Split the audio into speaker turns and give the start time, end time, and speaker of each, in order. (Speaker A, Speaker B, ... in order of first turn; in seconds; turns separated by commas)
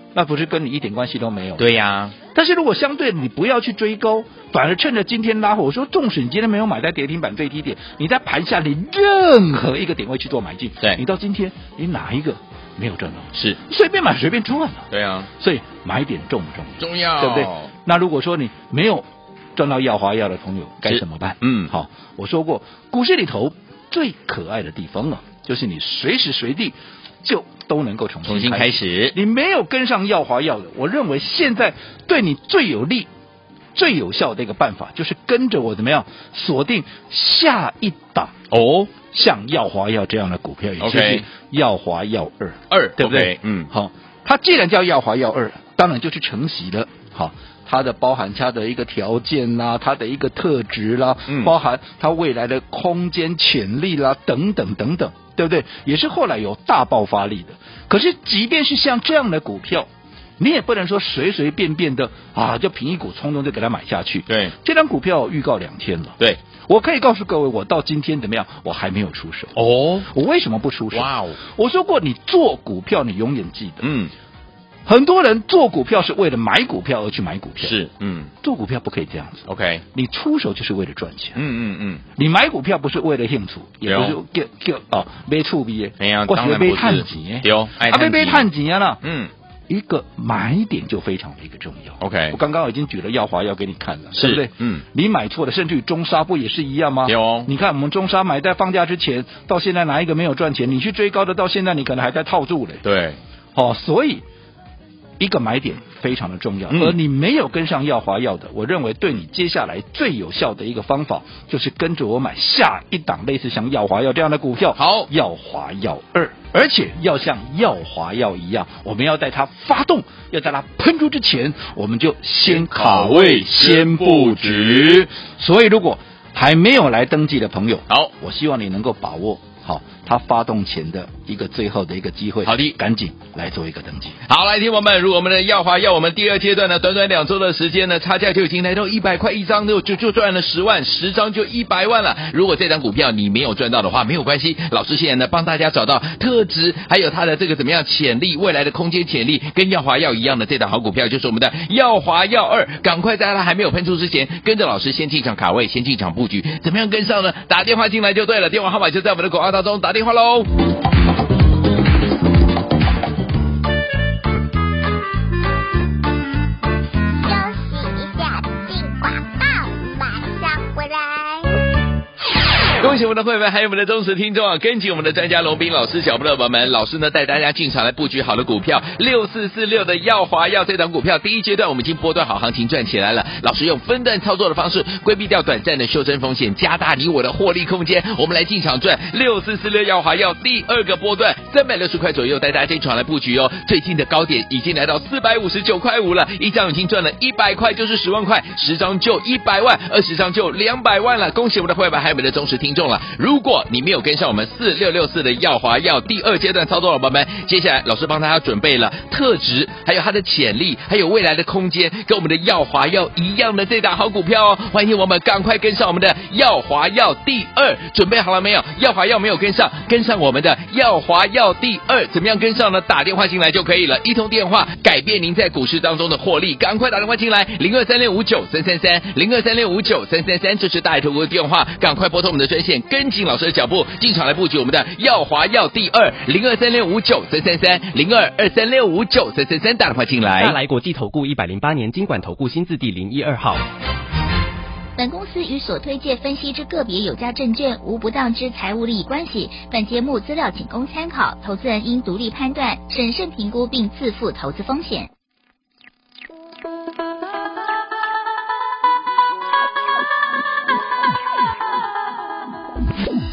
Speaker A: 0.1-1.7, Speaker B: 1.6-2.1, Speaker A: 2.3-14.9, Speaker B: 14.9-15.3, Speaker A: 15.4-19.0, Speaker B: 16.8-17.7, Speaker A: 19.6-33.1, Speaker B: 20.8-21.7, Speaker B: 28.2-29.1, Speaker A: 33.7-38.4, Speaker B: 38.5-38.9, Speaker A: 39.0-59.9, Speaker B: 40.8-41.2, Speaker B: 42.7-43.7, Speaker B: 51.3-51.5, Speaker A: 60.4-73.9, Speaker B: 64.3-64.5, Speaker B: 69.5-70.1, Speaker B: 70.9-71.4, Speaker B: 73.8-74.1, Speaker A: 74.8-77.8, Speaker B: 77.6-78.3, Speaker A: 78.4-81.4, Speaker B: 79.5-79.8, Speaker B: 81.3-82.0, Speaker A: 82.2-89.0, Speaker B: 83.8-84.2, Speaker B: 86.0-88.5, Speaker B: 89.0-89.3, Speaker A: 89.7-102.8, Speaker B: 92.0-92.4, Speaker B: 94.1-94.8, Speaker B: 97.0-97.5, Speaker B: 102.8-103.2, Speaker A: 103.5-104.2, Speaker A: 105.2-134.2, Speaker B: 106.7-107.0, Speaker B: 114.8-115.1, Speaker B: 122.4-125.1, Speaker B: 132.4-132.8, Speaker B: 134.3-160.5, Speaker C: 167.2-171.6, Speaker B: 172.8-240.6, Speaker D: 240.4-243.6, Speaker E: 245.0-255.1